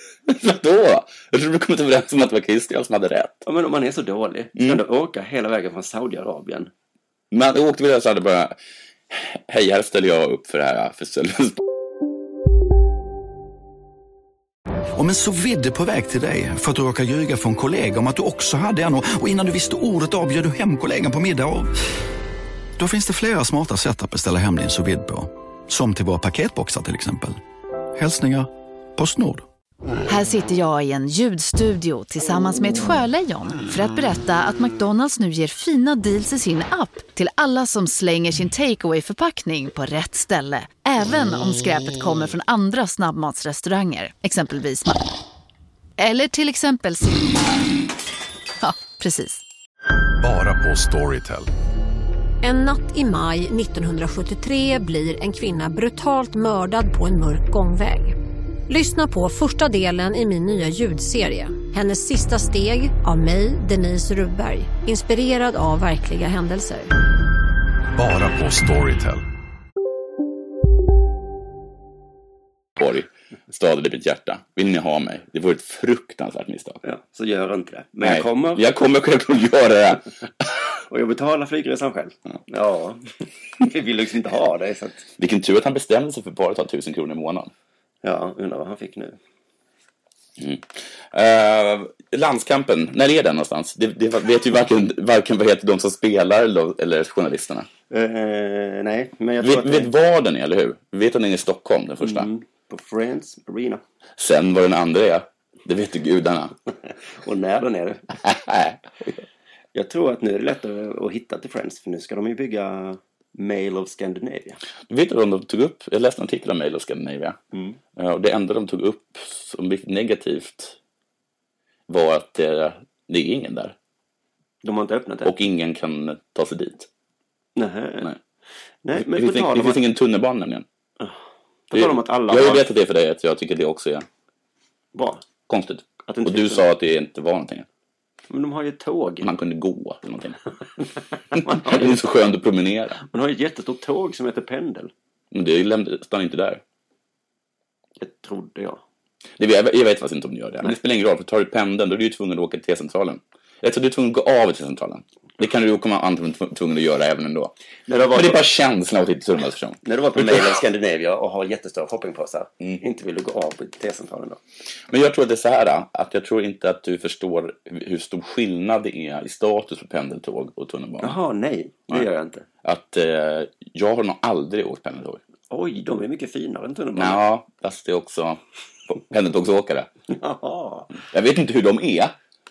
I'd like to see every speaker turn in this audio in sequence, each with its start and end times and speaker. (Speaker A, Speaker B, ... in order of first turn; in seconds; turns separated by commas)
Speaker A: 0.3-3.4, Speaker B: 3.4-6.7, Speaker A: 7.3-8.6, Speaker A: 9.1-11.6, Speaker C: 14.9-21.7, Speaker C: 22.8-27.4, Speaker C: 27.9-29.4, Speaker D: 30.1-45.0, Speaker D: 46.0-47.5, Speaker D: 48.6-49.4, Speaker E: 50.2-51.5, Speaker F: 52.4-58.1, Speaker F: 58.7-66.9, Speaker E: 68.0-69.2, Speaker A: 72.8-76.8, Speaker B: 76.8-78.6, Speaker A: 78.0-80.1, Speaker B: 80.9-83.0, Speaker B: 83.6-85.0, Speaker A: 85.2-87.5, Speaker B: 88.0-89.2, Speaker A: 90.4-97.7, Speaker B: 97.9-99.9, Speaker A: 99.4-102.3, Speaker B: 102.0-103.8, Speaker A: 104.2-106.5, Speaker B: 107.2-108.1, Speaker A: 108.2-108.8, Speaker B: 109.7-114.6, Speaker A: 114.9-117.4, Speaker B: 117.5-117.8, Speaker A: 118.0-120.8, Speaker A: 121.9-123.7, Speaker B: 124.6-125.3, Speaker A: 125.2-126.9, Speaker B: 127.5-128.1, Speaker B: 128.8-129.8, Speaker A: 128.9-130.6, Speaker B: 131.7-132.7, Speaker A: 131.7-134.1, Speaker B: 134.9-135.2, Speaker A: 135.5-137.7, Speaker B: 136.0-136.6, Speaker B: 138.3-139.3, Speaker A: 139.2-140.4, Speaker B: 141.3-142.0, Speaker A: 141.3-143.0, Speaker B: 143.0-144.9, Speaker A: 145.3-146.6, Speaker B: 148.0-148.8, Speaker A: 149.4-157.5, Speaker B: 157.9-158.4, Speaker A: 158.1-160.6, Speaker B: 159.8-164.4, Speaker A: 164.9-171.2, Speaker B: 171.0-172.4, Speaker A: 172.6-175.2, Speaker B: 175.5-177.2, Speaker A: 176.9-179.9, Speaker B: 180.1-180.9, Speaker A: 181.0-182.1